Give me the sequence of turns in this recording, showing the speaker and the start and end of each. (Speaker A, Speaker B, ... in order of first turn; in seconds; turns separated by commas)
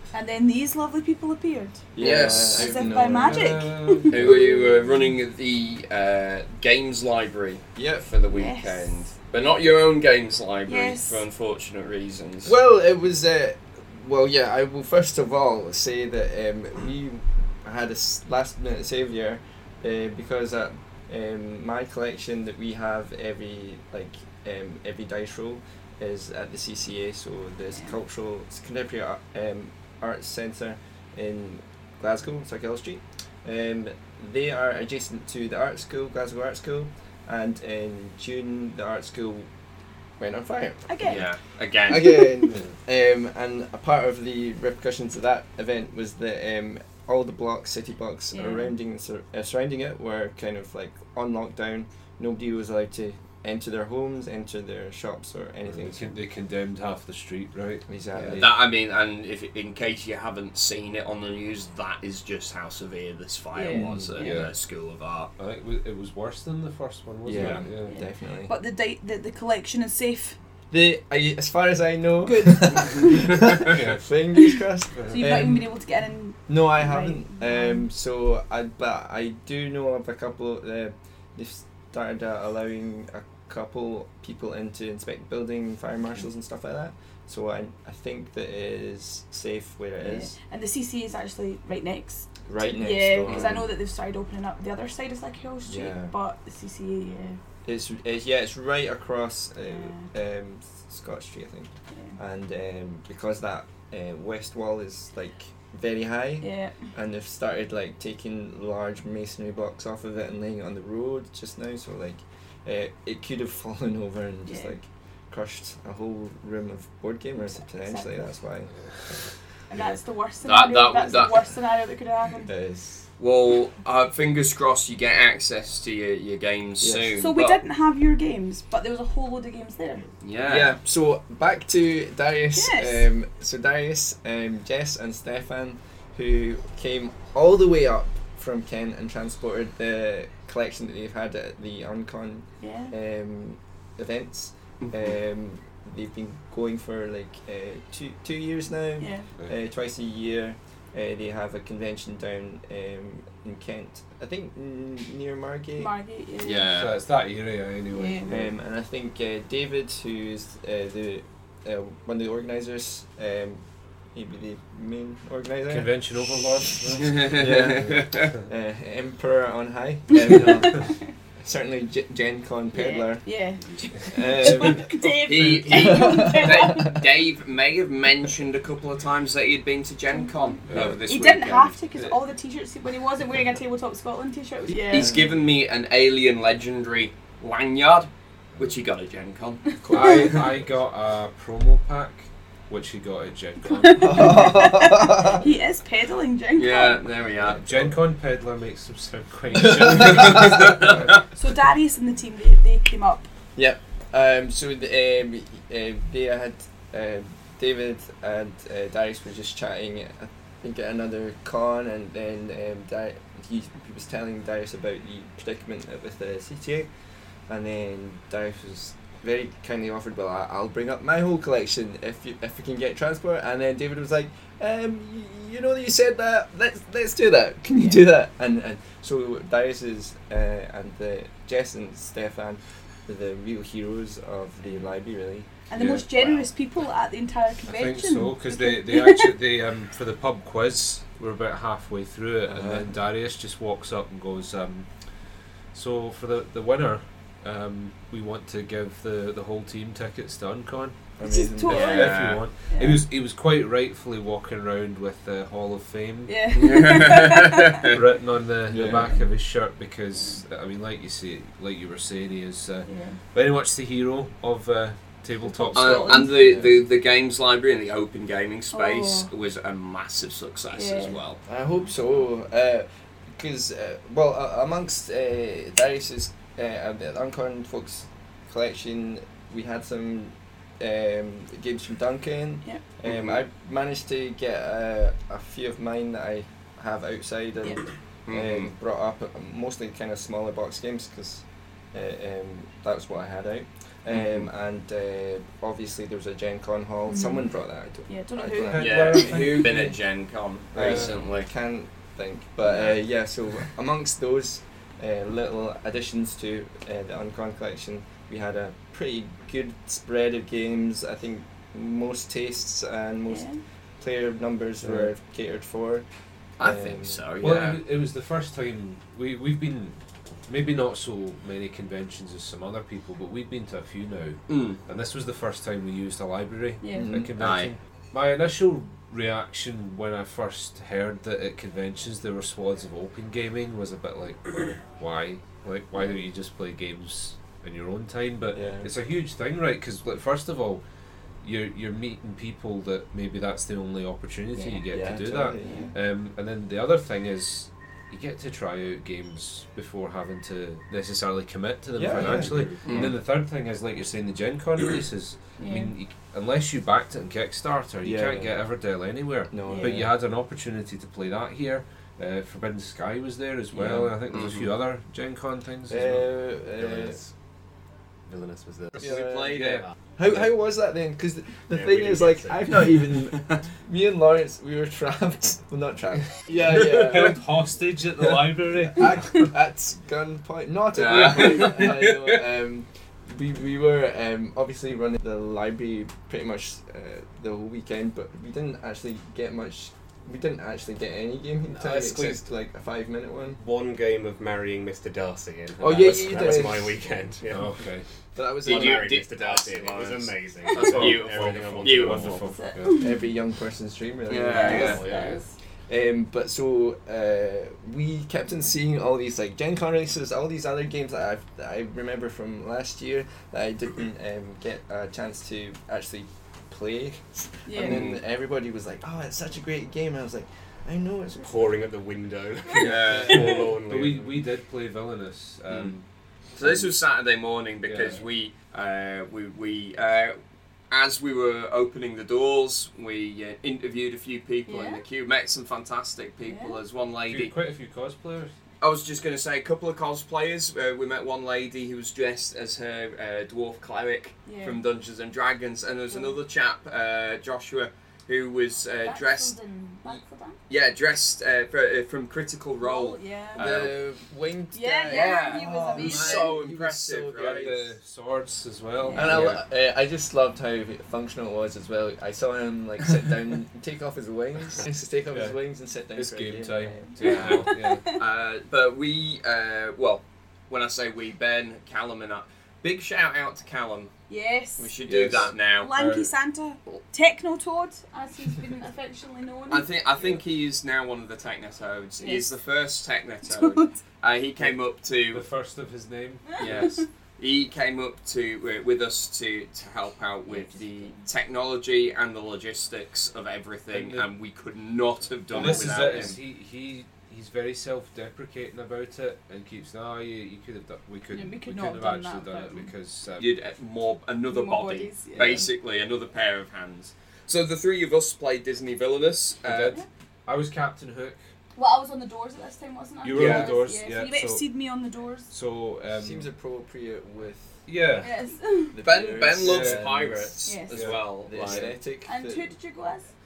Speaker A: 0.1-1.9, Speaker B: 1.9-3.7, Speaker C: 2.0-2.8, Speaker D: 2.1-5.0, Speaker A: 2.5-4.4, Speaker C: 4.1-12.6, Speaker B: 4.2-4.6, Speaker B: 7.8-8.1, Speaker A: 8.3-9.4, Speaker A: 10.7-11.2, Speaker B: 12.4-39.5, Speaker B: 40.2-41.3, Speaker A: 40.9-41.2, Speaker C: 41.0-42.3, Speaker B: 41.9-56.2, Speaker A: 41.9-42.5, Speaker A: 48.3-48.7, Speaker D: 55.6-58.6, Speaker B: 57.9-58.6, Speaker C: 58.3-65.3, Speaker A: 63.5-64.3, Speaker B: 63.7-64.1, Speaker D: 64.1-64.5, Speaker D: 65.4-68.0, Speaker B: 67.2-68.5, Speaker A: 67.8-70.4, Speaker B: 70.7-75.7, Speaker A: 72.2-73.4, Speaker D: 73.6-74.0, Speaker D: 75.0-75.2, Speaker A: 75.1-77.9, Speaker B: 76.5-90.3, Speaker A: 90.0-97.4, Speaker B: 92.5-93.7, Speaker C: 93.2-93.6, Speaker B: 95.7-96.1, Speaker B: 97.6-118.7, Speaker A: 99.7-100.1, Speaker A: 101.9-102.2, Speaker A: 106.4-106.9, Speaker A: 114.5-114.7, Speaker A: 117.4-118.3, Speaker A: 119.7-122.5, Speaker C: 120.4-121.5, Speaker B: 122.4-123.0, Speaker C: 123.2-127.6, Speaker B: 126.8-127.1, Speaker A: 127.2-130.0, Speaker C: 130.2-130.8, Speaker B: 130.4-155.9, Speaker A: 132.5-133.1, Speaker A: 142.6-142.9, Speaker C: 144.8-145.1, Speaker A: 149.0-149.3, Speaker A: 155.8-156.7, Speaker C: 156.4-156.9, Speaker D: 156.7-158.5, Speaker A: 157.9-158.3, Speaker B: 158.3-173.2, Speaker D: 165.7-168.2, Speaker C: 167.0-168.4, Speaker A: 170.1-171.1, Speaker A: 172.7-176.9, Speaker B: 174.1-174.9, Speaker D: 174.4-175.6, Speaker C: 175.0-181.8, Speaker B: 175.7-177.0, Speaker A: 180.1-185.2, Speaker D: 180.7-181.0, Speaker C: 184.9-190.4, Speaker B: 184.9-185.3, Speaker B: 189.8-190.4, Speaker D: 189.9-194.5, Speaker A: 189.9-190.3, Speaker A: 193.6-197.0, Speaker B: 194.0-195.5, Speaker C: 196.6-197.7, Speaker B: 197.4-197.9, Speaker D: 197.4-201.2, Speaker B: 199.6-201.0, Speaker C: 200.0-201.1, Speaker A: 201.3-203.3, Speaker B: 203.6-216.9, Speaker B: 217.5-236.4, Speaker A: 227.8-228.0, Speaker A: 235.7-239.3, Speaker D: 235.8-236.0, Speaker D: 237.7-244.9, Speaker B: 242.5-243.0, Speaker D: 245.7-251.0, Speaker B: 251.2-252.2, Speaker A: 251.2-253.0, Speaker D: 251.7-256.4, Speaker C: 251.7-252.4, Speaker A: 256.3-257.8, Speaker C: 256.5-257.9, Speaker D: 257.8-266.6, Speaker B: 258.7-259.2, Speaker A: 260.1-260.4, Speaker A: 262.9-263.2, Speaker A: 265.4-266.4, Speaker C: 265.7-271.4, Speaker B: 266.3-266.8, Speaker A: 268.7-269.3, Speaker A: 270.7-271.2, Speaker B: 271.4-299.7, Speaker C: 283.0-283.4, Speaker C: 288.3-288.7, Speaker C: 294.1-294.5, Speaker A: 297.1-297.5, Speaker A: 298.1-299.4, Speaker D: 298.6-299.9, Speaker C: 298.8-301.5, Speaker B: 300.7-313.5, Speaker D: 300.8-301.2, Speaker A: 313.3-313.6, Speaker B: 314.0-316.0, Speaker D: 314.8-315.1, Speaker C: 316.6-317.8, Speaker B: 316.6-317.2, Speaker D: 317.4-340.8, Speaker C: 324.5-324.8, Speaker A: 326.8-327.1, Speaker B: 326.9-327.3, Speaker C: 327.4-327.7, Speaker B: 338.5-338.9, Speaker D: 341.4-366.3, Speaker A: 344.5-344.8, Speaker B: 344.9-345.9, Speaker A: 345.6-345.9, Speaker B: 351.9-353.0, Speaker E: 352.1-353.1, Speaker C: 352.8-353.1, Speaker A: 355.6-355.9, Speaker B: 358.0-358.6, Speaker B: 359.5-360.1, Speaker A: 359.6-359.9, Speaker C: 363.7-364.7, Speaker B: 365.9-367.2, Speaker E: 366.8-367.3, Speaker E: 368.3-369.1, Speaker B: 368.9-369.6, Speaker C: 369.0-369.8, Speaker D: 369.5-369.8, Speaker B: 370.2-377.4, Speaker E: 371.7-372.7, Speaker C: 373.3-373.6, Speaker D: 376.5-379.5, Speaker C: 376.6-377.3, Speaker B: 378.2-393.6, Speaker C: 380.9-382.4, Speaker E: 391.7-392.4, Speaker E: 393.5-397.8, Speaker B: 395.8-397.0, Speaker D: 397.5-398.0, Speaker B: 398.4-399.1, Speaker E: 398.6-402.6, Speaker C: 398.6-402.4, Speaker D: 400.9-403.1, Speaker A: 402.5-403.2, Speaker B: 402.9-421.6, Speaker C: 404.3-405.1, Speaker A: 404.5-405.5, Speaker E: 404.6-405.4, Speaker A: 417.6-418.1, Speaker C: 417.8-418.2, Speaker E: 421.4-424.4, Speaker C: 422.7-423.6, Speaker D: 423.2-426.1, Speaker C: 425.7-425.9, Speaker C: 426.6-430.4, Speaker D: 426.6-426.9, Speaker D: 427.9-428.2, Speaker C: 430.9-437.5, Speaker A: 434.7-435.0, Speaker A: 436.4-436.8, Speaker D: 437.3-438.5, Speaker C: 438.8-449.5, Speaker A: 444.4-444.8, Speaker A: 446.1-446.4, Speaker A: 449.0-450.6, Speaker C: 450.1-454.0, Speaker A: 452.8-453.7, Speaker B: 453.5-457.9, Speaker A: 454.7-456.6, Speaker C: 455.1-457.8, Speaker D: 457.4-459.6, Speaker A: 459.0-459.4, Speaker B: 459.1-467.0, Speaker D: 465.3-465.6, Speaker D: 466.1-468.1, Speaker A: 466.9-468.2, Speaker C: 467.2-474.1, Speaker A: 474.3-474.9, Speaker C: 474.8-475.9, Speaker D: 475.1-476.3, Speaker A: 475.8-479.9, Speaker C: 479.7-485.4, Speaker A: 482.2-482.5, Speaker A: 483.5-484.0, Speaker D: 485.3-486.9, Speaker A: 486.5-487.0, Speaker C: 486.6-496.4, Speaker A: 490.5-491.2, Speaker D: 493.9-494.3, Speaker D: 495.5-503.5, Speaker B: 495.6-496.1, Speaker A: 501.3-502.9, Speaker C: 503.4-509.9, Speaker A: 504.5-505.6, Speaker D: 509.6-511.4, Speaker A: 511.8-515.5, Speaker D: 513.2-514.7, Speaker C: 513.3-513.8, Speaker D: 515.5-516.5, Speaker B: 516.1-517.9, Speaker D: 517.9-518.3, Speaker A: 518.2-519.0, Speaker B: 518.9-520.8, Speaker C: 519.0-521.9, Speaker D: 519.6-520.2, Speaker A: 520.6-521.0, Speaker D: 520.9-521.9, Speaker B: 521.4-522.7, Speaker A: 522.2-523.3